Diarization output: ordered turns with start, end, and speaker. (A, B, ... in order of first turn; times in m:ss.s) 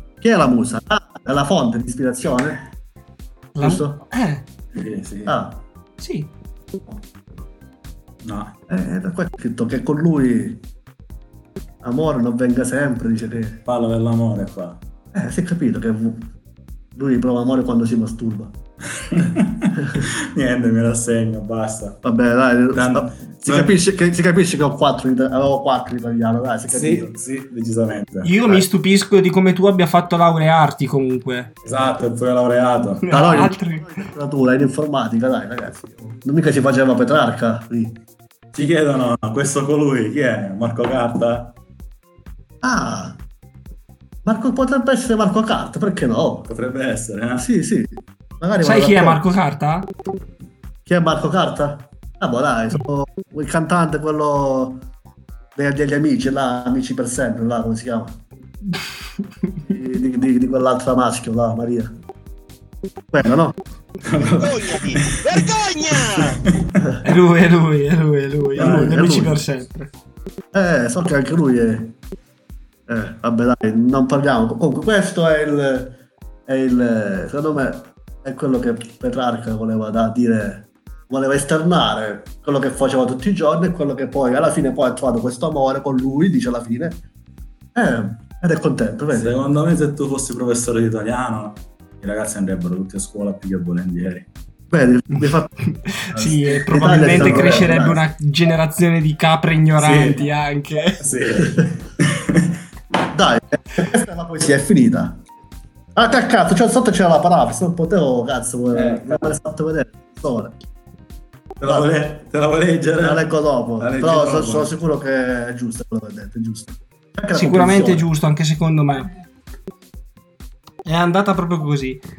0:00.2-0:02.6 A
0:03.6-0:04.4 B
0:03.6-0:04.0 A
0:04.7-0:05.3 C
0:05.2-0:05.6 A
0:06.0-0:06.3 B
0:08.2-0:08.6 C
0:08.7-0:10.6 A
0:11.8-0:13.6 A
0:13.7-0:14.8 C
0:15.1-0:16.3 A
0:17.0-0:18.5 A
0:19.1-0:22.0 C
0:22.0-0:27.1 A
0:22.7-0:23.7 C
0:26.7-0:28.6 C
0:28.2-0:31.5 B
0:31.6-0:33.1 C
0:33.1-0:34.1 B
0:33.1-0:38.0 A
0:38.5-0:41.5 C
0:42.6-0:43.2 A
0:44.2-0:46.5 A
0:46.5-0:47.4 C
0:47.4-0:49.2 A
0:48.6-0:49.9 B
0:50.9-0:54.9 A
0:55.6-0:58.2 A
0:59.7-1:01.9 A
1:03.1-1:03.6 A
1:04.0-1:05.5 C
1:04.4-1:06.4 D
1:07.0-1:09.9 B
1:08.6-1:09.4 A
1:08.6-1:08.9 C
1:10.5-1:12.0 A
1:12.9-1:27.0 A
1:27.7-1:29.4 A
1:29.1-1:34.3 C
1:34.7-1:35.5 A
1:35.9-1:41.0 B
1:36.1-1:38.0 A
1:36.8-1:37.7 C
1:39.8-1:40.2 C
1:41.0-1:42.5 C
1:43.1-1:45.2 A
1:46.0-1:50.6 A
1:48.7-1:49.3 C
1:51.6-1:54.7 C
1:51.6-1:51.9 A
1:53.0-1:58.1 A
1:57.3-1:59.1 B
2:00.9-2:02.0 B